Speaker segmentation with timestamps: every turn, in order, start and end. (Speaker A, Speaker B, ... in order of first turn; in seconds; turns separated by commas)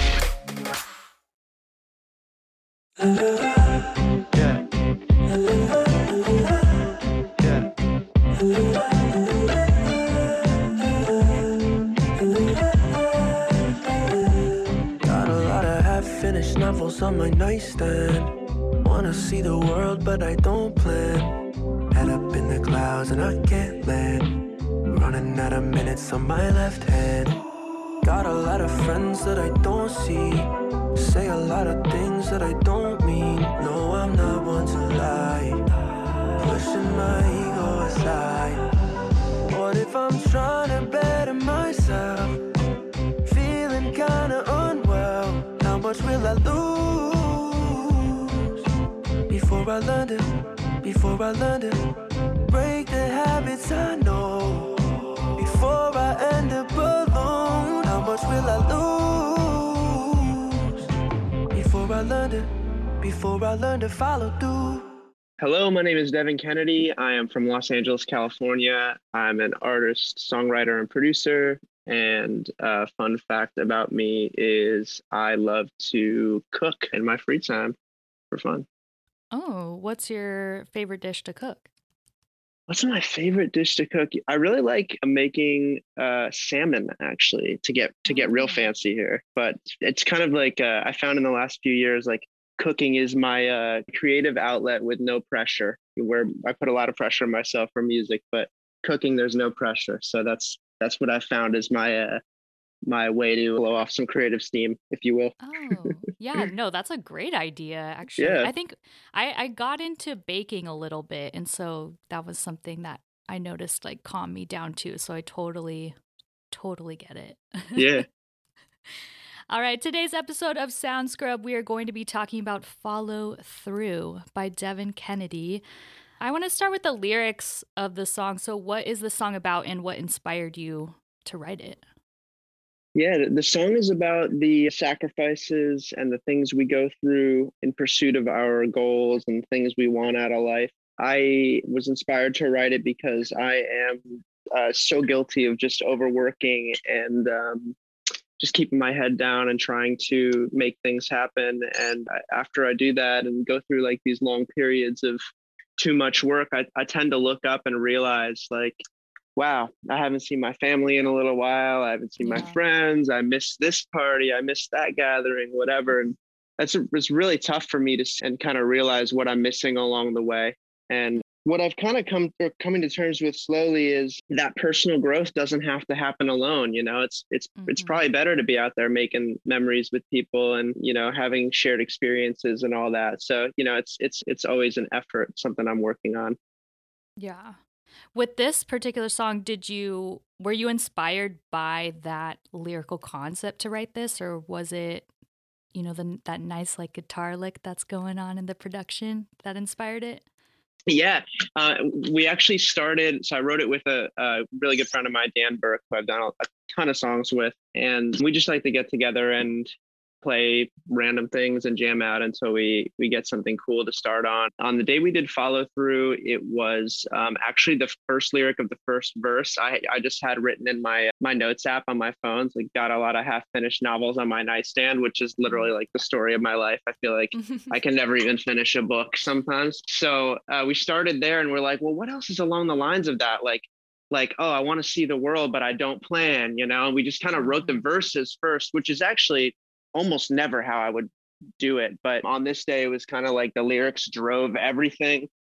Speaker A: 7.4-7.7, Speaker A: 15.0-21.4, Speaker A: 21.9-24.4, Speaker A: 24.9-27.4, Speaker A: 28.0-35.6, Speaker A: 36.4-38.7, Speaker A: 39.4-42.4, Speaker A: 43.2-48.7, Speaker A: 49.3-51.9, Speaker A: 52.5-60.9, Speaker A: 61.5-62.5, Speaker A: 63.0-64.9, Speaker B: 65.4-77.8, Speaker B: 78.3-78.7, Speaker C: 79.3-81.7, Speaker B: 82.7-102.2, Speaker C: 88.1-88.7, Speaker B: 102.9-106.0, Speaker C: 105.4-116.0, Speaker B: 108.2-108.5, Speaker C: 116.5-118.0, Speaker B: 117.8-118.1, Speaker C: 119.5-125.6, Speaker C: 126.2-131.8, Speaker B: 132.9-147.8, Speaker B: 148.4-155.2, Speaker B: 155.8-158.8, Speaker B: 159.4-186.4, Speaker C: 162.2-162.6, Speaker C: 177.6-178.0, Speaker C: 187.2-187.6, Speaker C: 188.1-195.1, Speaker C: 195.7-200.2, Speaker B: 200.9-209.7, Speaker B: 210.2-245.3, Speaker C: 225.4-225.7, Speaker C: 227.3-227.8, Speaker C: 237.4-237.8